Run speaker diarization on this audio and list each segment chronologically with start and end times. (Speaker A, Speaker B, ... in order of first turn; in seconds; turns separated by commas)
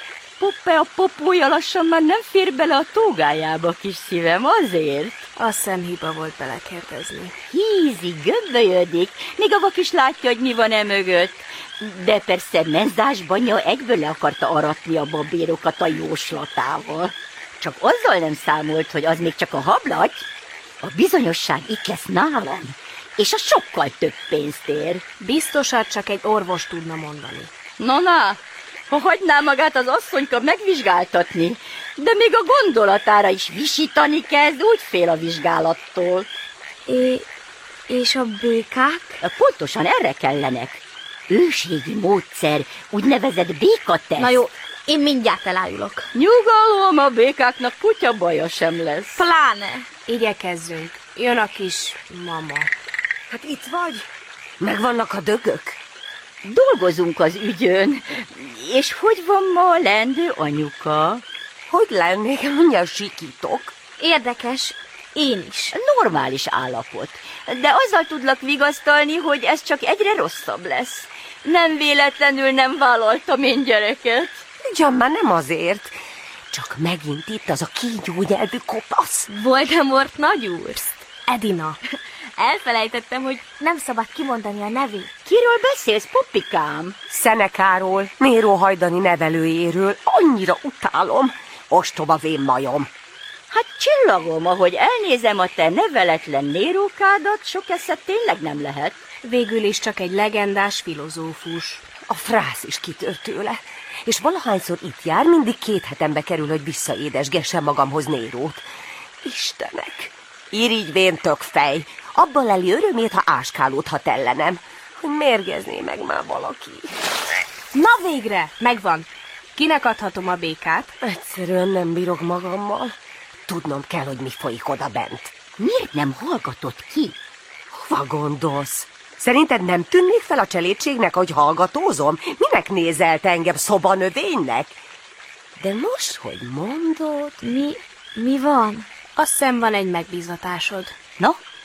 Speaker A: 0.4-5.3, Speaker B: 5.4-7.4, Speaker A: 7.5-20.2, Speaker A: 20.8-25.0, Speaker B: 25.2-27.5, Speaker A: 27.8-36.3, Speaker C: 36.9-37.2, Speaker C: 37.9-39.2, Speaker A: 39.2-44.4, Speaker C: 44.2-46.1, Speaker A: 46.1-49.2, Speaker C: 49.1-49.9, Speaker B: 50.1-52.7, Speaker D: 53.3-54.0, Speaker D: 54.6-55.8, Speaker A: 56.4-61.2, Speaker D: 61.7-63.7, Speaker C: 64.0-65.7, Speaker A: 65.7-74.4, Speaker D: 74.7-75.9, Speaker D: 76.5-79.3, Speaker C: 79.3-81.0, Speaker B: 81.3-81.8, Speaker C: 82.4-85.2, Speaker A: 85.2-87.0, Speaker D: 87.1-92.9, Speaker A: 93.5-99.0, Speaker B: 99.2-101.8, Speaker D: 102.1-108.6, Speaker D: 109.2-116.9, Speaker B: 117.7-120.9, Speaker D: 121.0-122.9, Speaker D: 123.5-125.5, Speaker A: 125.6-127.2, Speaker D: 127.7-134.8, Speaker D: 135.6-137.4, Speaker C: 137.4-138.9, Speaker B: 139.2-140.9